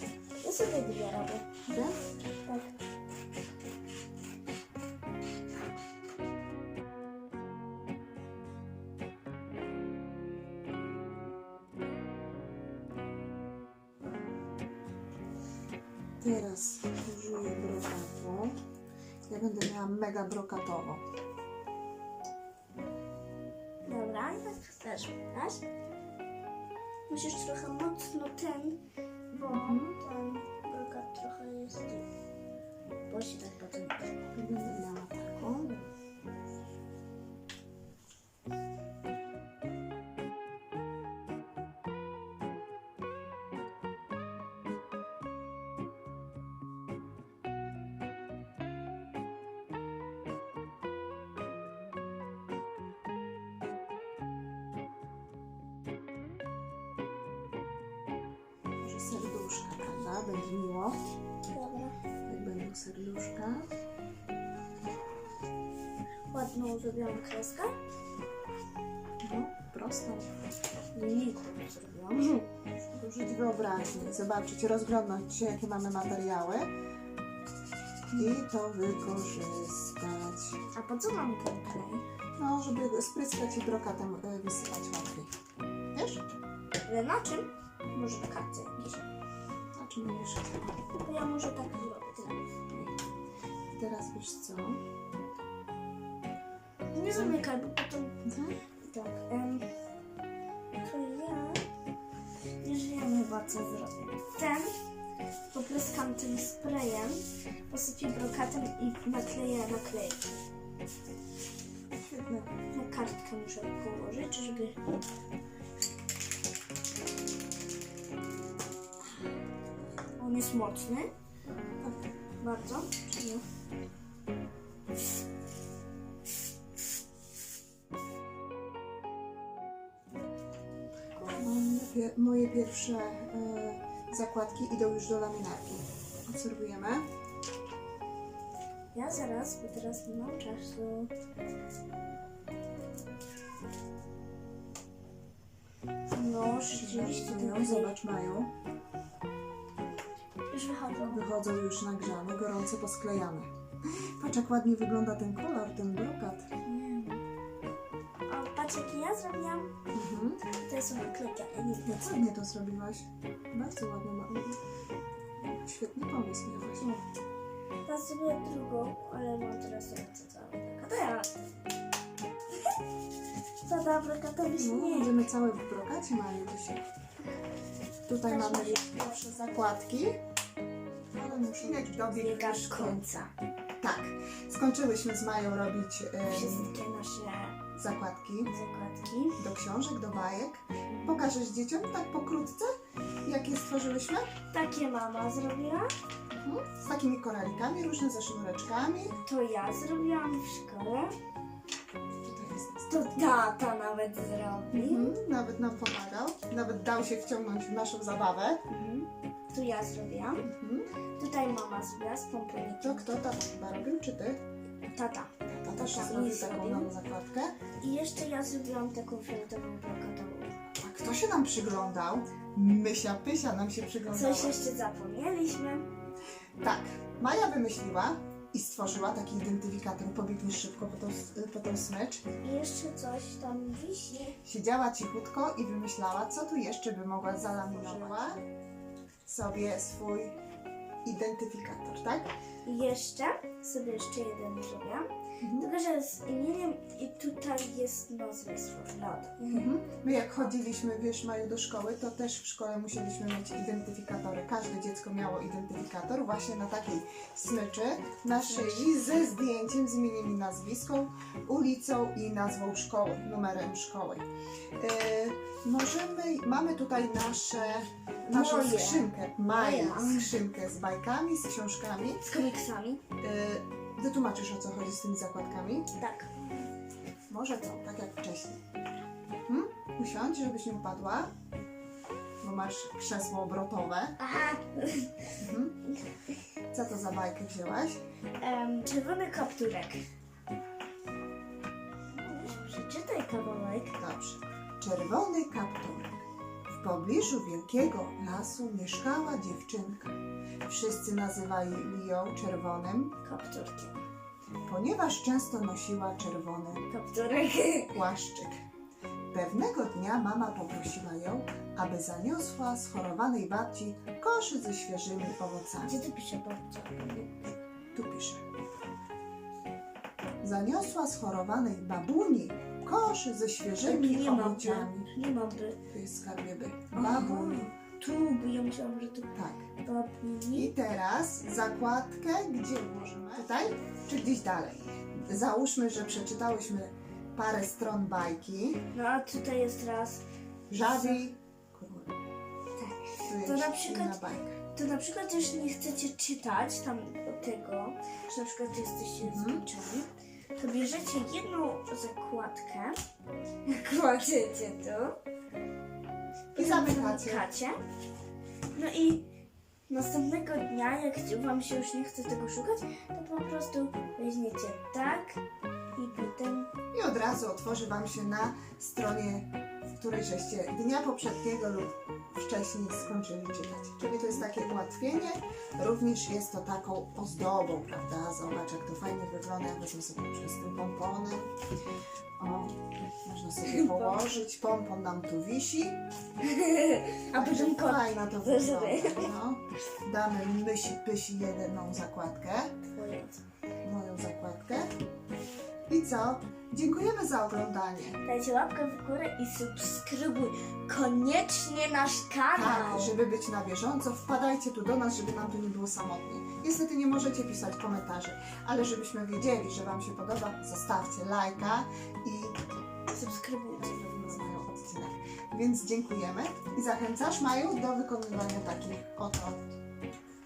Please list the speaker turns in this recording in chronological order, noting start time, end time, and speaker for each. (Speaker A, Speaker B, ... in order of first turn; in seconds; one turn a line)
Speaker A: 0.4-1.4
Speaker B: 1.7-1.9
Speaker A: 2.5-2.8
Speaker B: 16.2-18.6
Speaker B: 19.3-21.0
Speaker A: 23.8-25.6
Speaker A: 27.1-28.8
Speaker A: 29.3-32.0
Speaker B: 29.4-30.0
Speaker A: 33.1-34.1
Speaker B: 34.3-35.8
Speaker B: 58.8-61.0
Speaker A: 61.5-62.0
Speaker B: 62.3-63.7
Speaker A: 66.3-67.7
Speaker B: 69.2-70.3
Speaker A: 70.9-72.5
Speaker B: 72.9-76.7
Speaker B: 78.1-80.6
Speaker A: 80.7-82.0
Speaker B: 82.4-85.3
Speaker B: 85.9-86.2
Speaker A: 86.8-89.0
Speaker B: 89.7-90.8
Speaker A: 90.9-92.5
Speaker B: 93.7-94.8
Speaker A: 96.9-98.2
Speaker B: 97.1-97.4
Speaker B: 98.2-98.5
Speaker A: 98.8-99.7
Speaker A: 100.8-101.6
Speaker A: 102.6-104.7
Speaker A: 105.5-110.3
Speaker B: 111.9-112.5
Speaker A: 112.7-114.8
Speaker A: 120.2-121.1
Speaker A: 122.4-123.4
Speaker B: 131.2-137.1
Speaker A: 138.9-141.1
Speaker A: 146.1-147.9
Speaker B: 146.7-148.5
Speaker A: 150.5-151.2
Speaker B: 151.1-156.5
Speaker A: 156.6-157.2
Speaker A: 158.3-159.7
Speaker B: 159.9-160.4
Speaker A: 160.7-162.2
Speaker B: 161.8-164.6
Speaker B: 165.4-166.8
Speaker A: 166.8-167.0
Speaker A: 167.8-171.7
Speaker A: 173.6-175.3
Speaker B: 174.5-176.8
Speaker B: 178.1-180.2
Speaker A: 178.2-179.2
Speaker B: 181.2-183.1
Speaker A: 181.2-183.3
Speaker B: 183.8-186.7
Speaker A: 186.2-187.6
Speaker B: 187.8-188.5
Speaker A: 188.5-189.4
Speaker B: 189.4-192.7
Speaker A: 190.9-191.2
Speaker B: 193.2-194.3
Speaker A: 194.5-195.9
Speaker B: 196.3-199.2
Speaker A: 199.2-201.1
Speaker B: 202.2-202.9
Speaker A: 202.9-205.1
Speaker B: 204.7-208.6
Speaker A: 208.7-210.5
Speaker B: 210.4-210.9
Speaker A: 211.2-213.2
Speaker B: 212.8-214.4
Speaker A: 214.9-216.9
Speaker B: 215.4-217.5
Speaker A: 217.8-220.5
Speaker B: 220.8-224.6
Speaker A: 224.1-225.9
Speaker B: 226.6-232.2
Speaker A: 232.4-234.3
Speaker B: 234.4-238.4
Speaker A: 237.7-238.4
Speaker B: 239.2-240.4
Speaker B: 241.0-242.3
Speaker A: 242.6-249.7
Speaker B: 245.4-245.7
Speaker B: 249.5-264.2
Speaker A: 258.5-259.0
Speaker B: 264.8-272.2
Speaker A: 268.3-270.4
Speaker A: 272.2-273.0
Speaker B: 273.2-275.9
Speaker A: 276.0-276.3
Speaker B: 277.3-278.6
Speaker B: 279.5-281.3
Speaker B: 282.4-284.2
Speaker A: 284.2-285.1
Speaker B: 285.4-285.8
Speaker B: 286.7-288.0
Speaker A: 288.4-290.0
Speaker A: 292.2-294.0
Speaker B: 294.0-296.1
Speaker B: 296.7-300.1
Speaker B: 300.7-303.1
Speaker A: 303.2-303.9
Speaker B: 304.7-306.8
Speaker A: 306.8-308.0
Speaker B: 307.9-308.6
Speaker B: 309.3-316.0
Speaker A: 315.8-317.3
Speaker B: 317.9-318.4
Speaker B: 320.4-325.1
Speaker A: 323.8-325.8
Speaker B: 325.9-327.7
Speaker A: 326.9-329.3
Speaker B: 329.3-329.6
Speaker A: 329.8-330.7
Speaker B: 330.5-338.8
Speaker A: 333.3-333.7
Speaker A: 338.9-340.2
Speaker B: 340.7-342.1
Speaker A: 340.8-341.2
Speaker A: 342.8-353.0
Speaker B: 343.2-344.6
Speaker B: 349.2-349.6
Speaker A: 353.6-355.2
Speaker A: 356.5-357.7
Speaker B: 356.6-357.5
Speaker A: 358.7-359.2
Speaker A: 359.9-365.4
Speaker A: 365.9-366.7
Speaker B: 366.9-381.5
Speaker B: 382.4-386.0
Speaker A: 383.6-384.4
Speaker A: 386.4-389.3
Speaker B: 387.3-392.7
Speaker A: 392.9-393.4
Speaker B: 393.8-394.9
Speaker B: 395.9-398.2
Speaker A: 398.2-403.1
Speaker B: 402.5-412.6
Speaker A: 413.1-414.3
Speaker B: 413.8-419.7